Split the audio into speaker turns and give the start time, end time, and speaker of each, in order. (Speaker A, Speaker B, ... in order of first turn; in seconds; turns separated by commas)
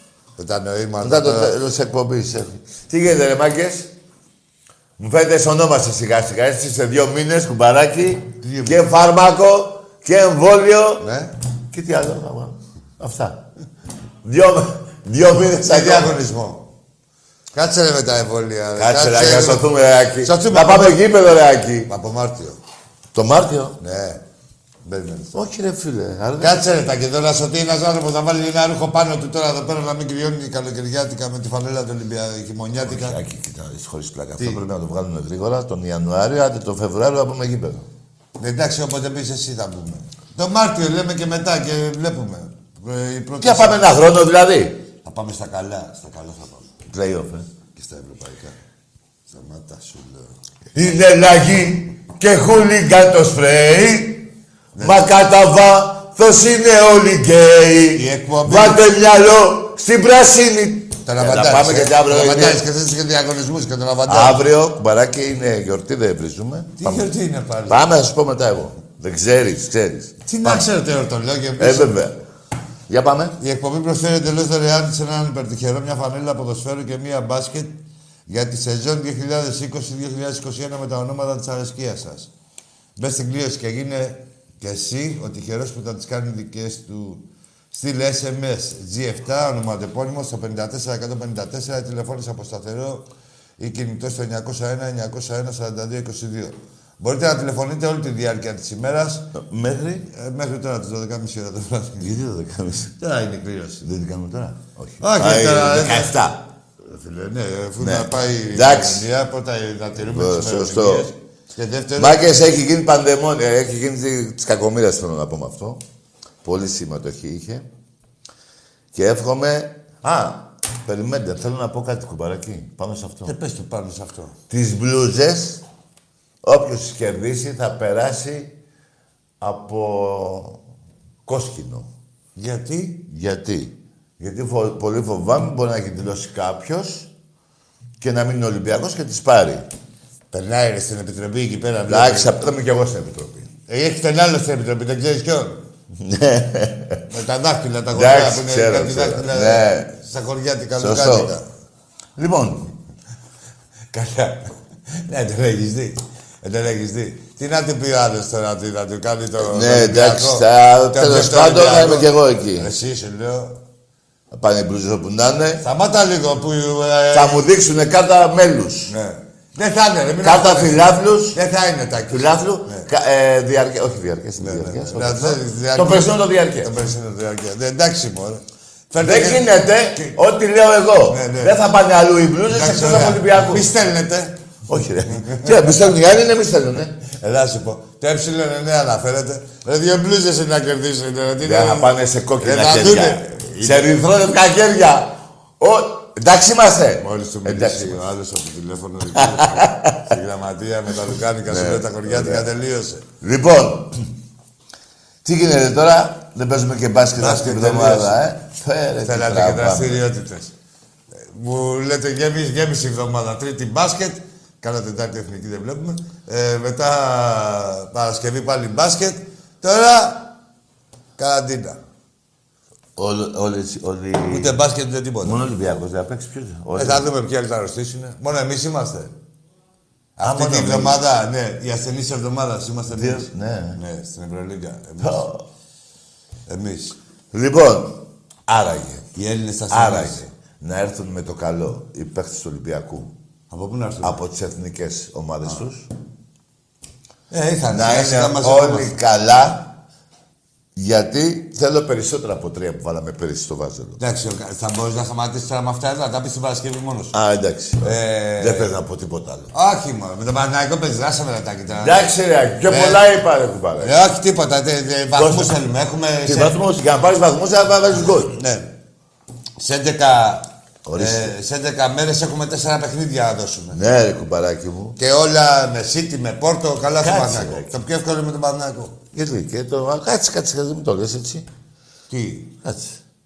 Speaker A: 0.4-1.5, Speaker B: 1.0-3.9, Speaker B: 5.0-11.0, Speaker A: 8.4-8.8, Speaker A: 11.0-11.3, Speaker B: 11.7-13.4, Speaker B: 14.2-16.2, Speaker A: 15.7-16.7, Speaker A: 17.5-19.7, Speaker B: 18.8-21.9, Speaker A: 20.2-21.0, Speaker A: 21.9-22.6, Speaker B: 23.1-23.8, Speaker A: 23.8-24.2, Speaker A: 24.8-25.4, Speaker B: 25.3-26.6, Speaker A: 26.4-33.2, Speaker B: 32.8-37.9, Speaker A: 34.4-34.6, Speaker A: 38.4-43.8, Speaker B: 43.4-44.8, Speaker A: 45.0-46.7, Speaker B: 46.9-47.5, Speaker A: 47.7-48.6, Speaker A: 49.3-50.3, Speaker B: 50.7-54.3, Speaker A: 54.8-55.1, Speaker B: 54.8-62.6, Speaker A: 57.9-58.8, Speaker A: 61.0-64.5, Speaker B: 64.1-67.1, Speaker A: 66.8-67.8, Speaker B: 67.7-70.7, Speaker A: 70.3-71.9, Speaker B: 71.6-72.2, Speaker B: 72.9-73.4, Speaker A: 73.4-82.3, Speaker A: 83.0-93.1, Speaker A: 93.6-99.3, Speaker B: 99.3-100.0, Speaker A: 100.1-102.0, Speaker B: 102.0-102.9, Speaker A: 103.0-103.8, Speaker B: 103.8-106.5, Speaker A: 105.0-106.1, Speaker A: 106.8-112.2, Speaker B: 107.8-109.0, Speaker B: 110.0-111.1, Speaker B: 112.0-115.8, Speaker B: 116.4-117.7, Speaker B: 118.9-123.3, Speaker A: 123.2-124.3, Speaker B: 124.5-125.6, Speaker B: 126.4-128.5, Speaker B: 129.4-130.6, Speaker B: 131.2-131.9, Speaker A: 132.3-133.0, Speaker B: 133.1-137.1, Speaker B: 138.0-139.7, Speaker A: 140.3-142.4, Speaker B: 141.8-143.5, Speaker A: 143.7-145.6, Speaker B: 145.9-147.0, Speaker A: 147.1-151.4, Speaker B: 147.9-149.9, Speaker B: 150.8-151.3, Speaker B: 152.2-152.7, Speaker A: 153.9-154.4, Speaker A: 155.0-163.6, Speaker B: 159.4-162.7, Speaker B: 164.3-165.6, Speaker A: 165.6-167.4, Speaker B: 167.1-168.9, Speaker A: 168.9-172.9, Speaker B: 170.2-171.4, Speaker B: 172.1-176.7, Speaker A: 174.4-180.2, Speaker B: 179.0-183.7, Speaker A: 181.1-181.5, Speaker A: 182.5-184.4, Speaker B: 184.7-187.0, Speaker A: 185.3-185.7, Speaker A: 187.1-193.9, Speaker B: 191.4-198.0, Speaker A: 197.0-203.0, Speaker B: 199.1-200.0, Speaker B: 201.4-202.4, Speaker B: 203.2-204.0, Speaker B: 205.2-210.0, Speaker A: 207.2-208.2, Speaker A: 209.1-210.5, Speaker A: 211.2-220.3, Speaker A: 221.2-221.8, Speaker B: 222.9-224.6, Speaker A: 224.3-225.4, Speaker B: 225.2-227.1, Speaker A: 226.8-229.1, Speaker A: 230.2-235.2, Speaker B: 230.2-231.0, Speaker B: 232.9-233.8, Speaker B: 235.0-235.4, Speaker A: 236.5-236.9, Speaker B: 237.3-239.1, Speaker A: 239.2-240.3, Speaker B: 239.7-243.1, Speaker A: 243.5-244.2, Speaker B: 244.0-245.9, Speaker A: 247.3-248.9, Speaker B: 247.7-249.7, Speaker B: 250.7-254.0, Speaker A: 254.0-257.1, Speaker B: 257.1-259.5, Speaker A: 257.8-258.7, Speaker A: 259.5-262.0, Speaker B: 261.7-264.0, Speaker A: 262.7-263.0, Speaker A: 263.8-266.6, Speaker B: 265.1-265.5, Speaker B: 266.2-268.3, Speaker A: 268.2-268.7, Speaker A: 269.6-273.8, Speaker B: 270.8-271.3, Speaker B: 273.7-275.0, Speaker A: 275.0-279.0, Speaker B: 277.0-277.7, Speaker B: 279.1-281.4, Speaker A: 282.1-282.5, Speaker B: 282.6-283.0